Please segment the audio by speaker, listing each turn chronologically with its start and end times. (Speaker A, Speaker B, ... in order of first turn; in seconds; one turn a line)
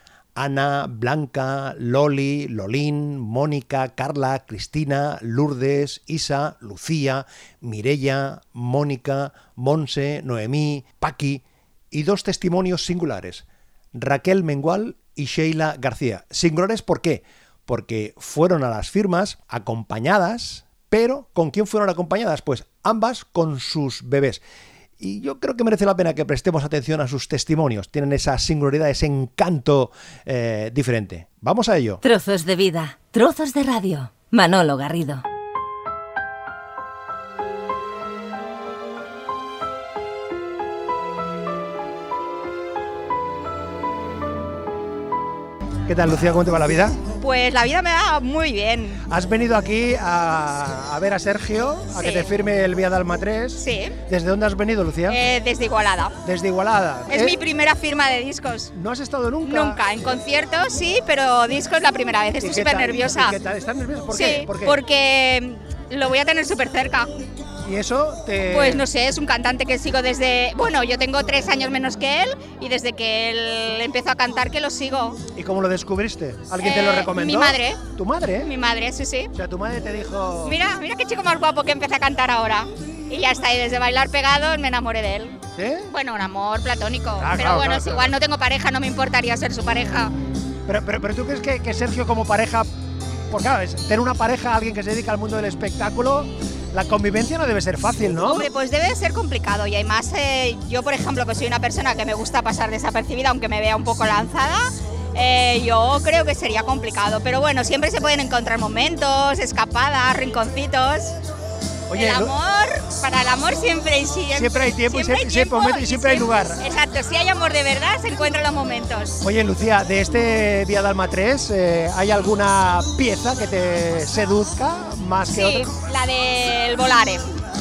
Speaker A: 0.3-24.4
Speaker A: 25.0-32.0
Speaker B: 32.0-35.2
Speaker A: 45.9-47.0
Speaker C: 47.2-49.0
Speaker A: 49.1-55.2
Speaker C: 52.0-52.3
Speaker C: 53.6-53.9
Speaker C: 55.1-56.1
Speaker A: 56.2-57.4
Speaker C: 57.1-58.7
Speaker A: 58.7-59.8
Speaker C: 59.4-63.4
Speaker A: 62.4-64.8
Speaker C: 64.1-67.1
Speaker A: 67.6-68.8
Speaker C: 68.5-75.2
Speaker A: 75.3-78.5
Speaker C: 76.6-77.8
Speaker C: 78.4-79.3
Speaker A: 79.3-80.5
Speaker C: 80.4-85.3
Speaker A: 85.5-85.9
Speaker C: 85.9-90.1
Speaker A: 87.2-88.1
Speaker A: 90.7-92.7
Speaker A: 93.3-98.5
Speaker C: 98.1-111.2
Speaker A: 111.9-112.3
Speaker C: 112.0-119.2
Speaker A: 114.3-116.6
Speaker A: 119.2-125.7
Speaker C: 125.3-127.2